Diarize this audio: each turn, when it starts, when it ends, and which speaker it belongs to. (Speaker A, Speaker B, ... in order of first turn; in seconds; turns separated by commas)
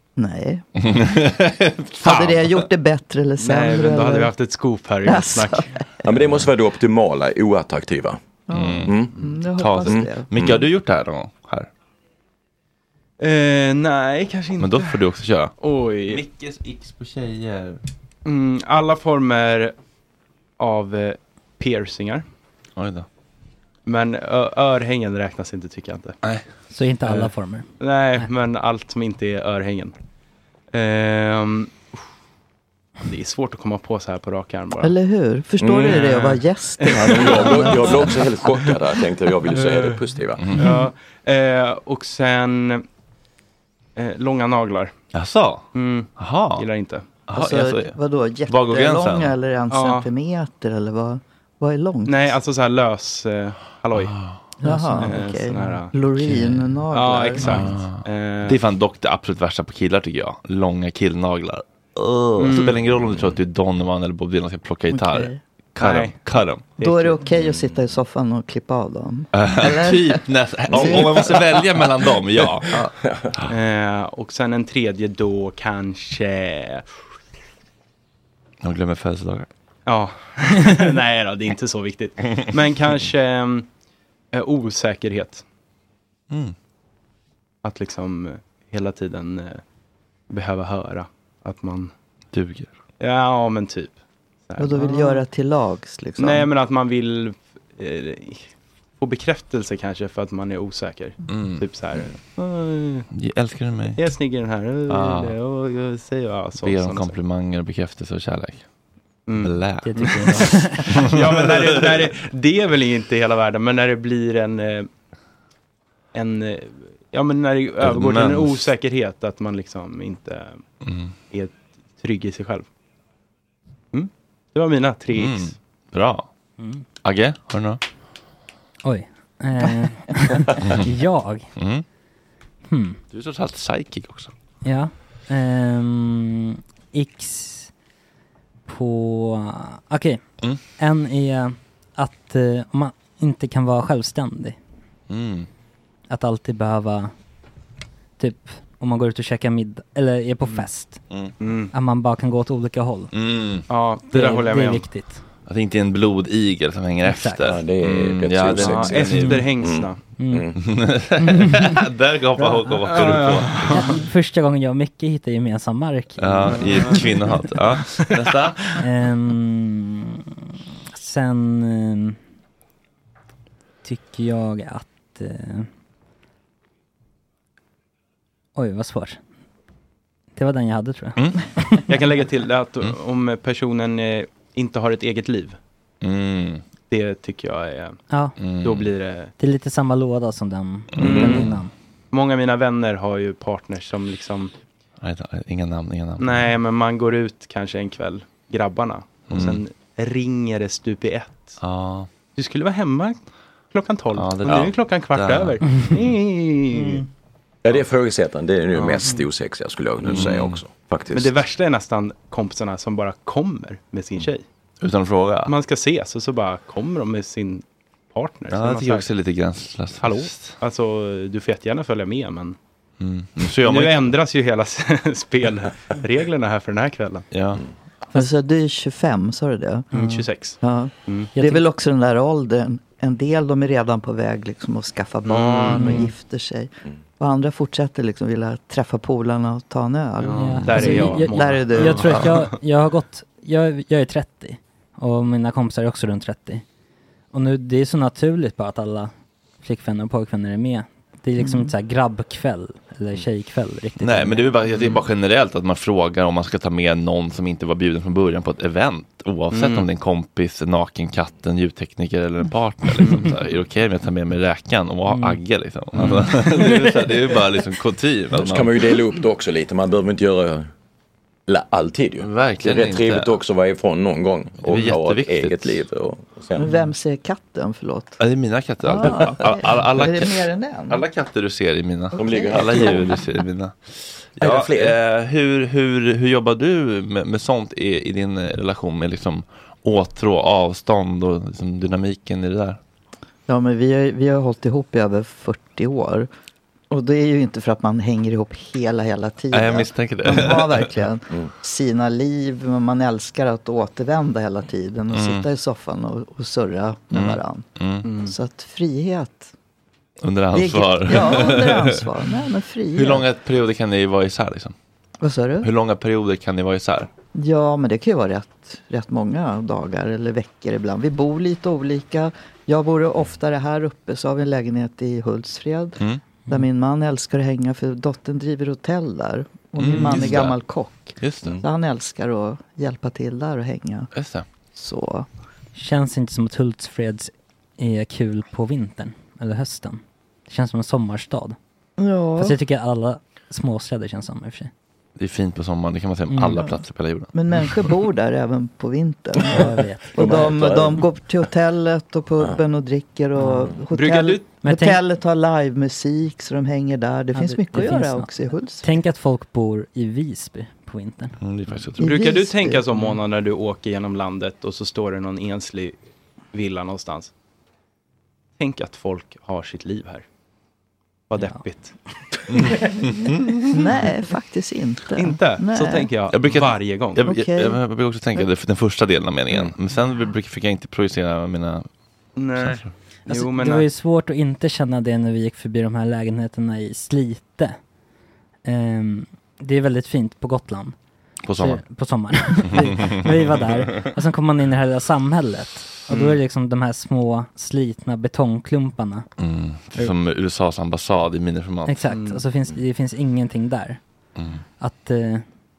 Speaker A: 0.2-0.6, Speaker B: 0.8-2.7, Speaker A: 2.0-4.3, Speaker C: 3.4-5.7, Speaker A: 5.0-5.8, Speaker D: 6.0-8.2, Speaker A: 8.5-10.3, Speaker B: 8.5-9.0, Speaker D: 8.8-9.2, Speaker B: 9.5-11.7, Speaker D: 9.9-10.6, Speaker C: 13.2-15.0, Speaker B: 14.6-15.5, Speaker C: 15.6-16.2, Speaker B: 16.1-17.8, Speaker C: 18.2-19.7, Speaker C: 20.6-22.2, Speaker B: 22.8-23.1, Speaker C: 23.9-26.1, Speaker E: 26.7-28.2, Speaker C: 27.8-29.9, Speaker C: 30.7-32.0, Speaker C: 33.0-34.9, Speaker A: 34.8-38.0, Speaker D: 35.6-36.0, Speaker C: 35.8-38.8, Speaker D: 36.9-40.5, Speaker C: 39.5-40.0, Speaker B: 40.4-40.8, Speaker C: 40.5-42.8, Speaker C: 44.0-44.9, Speaker B: 45.1-46.7, Speaker C: 45.7-47.1, Speaker B: 47.3-49.4, Speaker A: 47.3-52.3, Speaker C: 49.7-50.1, Speaker C: 52.0-54.1, Speaker B: 53.9-54.4, Speaker A: 54.6-57.5, Speaker E: 54.6-55.1, Speaker C: 55.0-55.9, Speaker B: 56.2-56.8, Speaker C: 56.9-58.6, Speaker B: 57.4-66.7, Speaker C: 62.4-62.8, Speaker D: 62.9-63.4, Speaker A: 64.9-65.4, Speaker C: 65.8-66.2, Speaker C: 66.8-67.2, Speaker A: 66.8-71.6, Speaker D: 67.3-67.8, Speaker B: 69.3-72.7, Speaker D: 70.7-71.0, Speaker D: 73.0-73.4, Speaker C: 73.5-76.8, Speaker B: 78.6-79.5, Speaker C: 79.9-83.7, Speaker C: 84.3-85.4, Speaker B: 86.3-86.5, Speaker C: 87.6-89.6, Speaker C: 90.3-91.9, Speaker B: 92.3-92.7, Speaker C: 93.0-93.9, Speaker C: 94.5-95.2, Speaker A: 94.6-96.5, Speaker C: 96.2-103.1, Speaker B: 101.3-101.6, Speaker B: 103.1-104.0, Speaker C: 104.0-107.1, Speaker B: 104.9-105.3, Speaker B: 106.6-108.6, Speaker C: 109.3-114.9, Speaker B: 109.4-112.1, Speaker E: 109.8-110.8, Speaker C: 116.1-120.6, Speaker B: 117.8-118.7, Speaker B: 120.8-121.1, Speaker C: 121.3-122.7, Speaker C: 123.9-125.5, Speaker B: 125.1-126.3, Speaker B: 127.0-127.8, Speaker E: 128.8-131.5, Speaker B: 131.6-131.8, Speaker E: 132.7-133.0, Speaker B: 133.1-134.3, Speaker E: 134.6-137.7, Speaker E: 138.7-140.2, Speaker E: 140.8-144.6, Speaker B: 145.1-145.5, Speaker E: 146.1-147.1, Speaker E: 148.2-151.0, Speaker C: 151.4-151.7, Speaker E: 151.7-153.1, Speaker B: 153.1-153.7, Speaker C: 153.7-154.8, Speaker E: 154.1-155.2, Speaker B: 155.5-159.4, Speaker E: 157.1-157.5, Speaker D: 157.4-160.6, Speaker C: 158.6-160.0, Speaker E: 159.2-159.5, Speaker E: 160.2-160.5, Speaker B: 160.6-163.9, Speaker E: 161.2-161.8, Speaker C: 162.8-163.9, Speaker E: 163.7-167.3, Speaker B: 166.2-168.7, Speaker C: 166.5-167.1, Speaker E: 168.8-172.2, Speaker E: 173.8-175.7, Speaker E: 178.6-179.2, Speaker E: 180.3-181.8, Speaker B: 181.2-181.4, Speaker C: 181.9-185.6, Speaker B: 186.0-186.6, Speaker C: 186.9-188.0, Speaker E: 188.1-188.3, Speaker B: 188.4-188.9, Speaker C: 188.6-189.3, Speaker E: 189.4-191.7, Speaker B: 190.9-191.5, Speaker D: 191.0-191.5, Speaker C: 191.0-191.4, Speaker C: 192.1-194.5, Speaker B: 195.0-196.5, Speaker C: 196.2-201.6, Speaker B: 199.3-199.6, Speaker B: 201.6-202.1, Speaker C: 202.3-207.1, Speaker B: 204.1-205.8, Speaker D: 204.4-204.7, Speaker E: 206.7-207.0, Speaker D: 207.6-211.3, Speaker C: 208.7-209.2, Speaker B: 210.0-210.6, Speaker C: 211.1-214.4, Speaker B: 214.8-215.5, Speaker C: 215.5-219.1, Speaker B: 218.5-220.6, Speaker C: 220.0-222.6, Speaker B: 223.0-224.1, Speaker C: 223.6-227.2, Speaker B: 227.3-227.6, Speaker A: 228.1-229.9, Speaker E: 229.9-230.2, Speaker C: 229.9-231.3, Speaker A: 230.6-242.3, Speaker E: 231.3-231.6, Speaker C: 235.2-236.1, Speaker E: 235.7-236.1, Speaker C: 240.2-242.5, Speaker E: 240.3-246.6, Speaker E: 247.3-254.5, Speaker A: 251.4-251.7, Speaker B: 254.0-268.9, Speaker C: 259.5-259.9, Speaker C: 263.0-263.3, Speaker E: 265.1-265.4, Speaker C: 265.9-266.8, Speaker D: 268.4-270.7, Speaker D: 271.5-276.7, Speaker B: 272.2-273.4, Speaker B: 274.6-275.8, Speaker A: 276.6-278.2, Speaker B: 278.2-283.8, Speaker A: 278.8-281.0, Speaker D: 279.0-279.3, Speaker D: 282.1-283.2, Speaker A: 282.2-283.1, Speaker B: 284.4-292.8, Speaker D: 284.4-285.0, Speaker A: 293.5-296.3, Speaker A: 296.9-307.6, Speaker B: 299.5-300.9, Speaker B: 305.1-305.5, Speaker B: 307.1-308.1, Speaker C: 308.0-308.3, Speaker A: 308.2-309.5, Speaker B: 310.2-312.1, Speaker A: 310.5-313.2, Speaker B: 312.9-314.7, Speaker A: 315.2-315.7, Speaker B: 315.6-317.1, Speaker A: 317.3-334.1, Speaker B: 329.8-330.6, Speaker E: 329.9-330.4, Speaker B: 331.2-331.6, Speaker B: 334.1-334.4, Speaker A: 334.7-335.3, Speaker E: 335.7-341.6, Speaker A: 342.0-342.6, Speaker E: 342.4-344.7, Speaker B: 345.2-347.3, Speaker E: 346.3-346.7, Speaker A: 347.3-359.0, Speaker E: 349.4-350.4, Speaker D: 350.1-351.1, Speaker E: 353.4-353.7, Speaker C: 353.9-354.5, Speaker E: 354.6-355.0, Speaker E: 357.3-361.4, Speaker B: 361.4-362.1, Speaker C: 362.0-366.0, Speaker A: 362.0-362.9, Speaker C: 366.5-367.3, Speaker C: 368.6-370.2, Speaker C: 371.3-372.0, Speaker B: 372.5-373.6, Speaker A: 373.7-376.1, Speaker C: 375.1-377.2, Speaker B: 376.3-381.9, Speaker A: 377.2-377.8, Speaker C: 382.4-383.9, Speaker B: 382.6-382.9, Speaker E: 383.3-387.8, Speaker E: 388.6-390.9, Speaker B: 391.4-391.8, Speaker E: 391.6-399.3, Speaker B: 392.7-394.1, Speaker C: 396.1-396.4, Speaker B: 399.4-402.1, Speaker E: 401.9-404.0, Speaker C: 402.1-402.4, Speaker B: 404.4-404.6, Speaker E: 404.8-405.4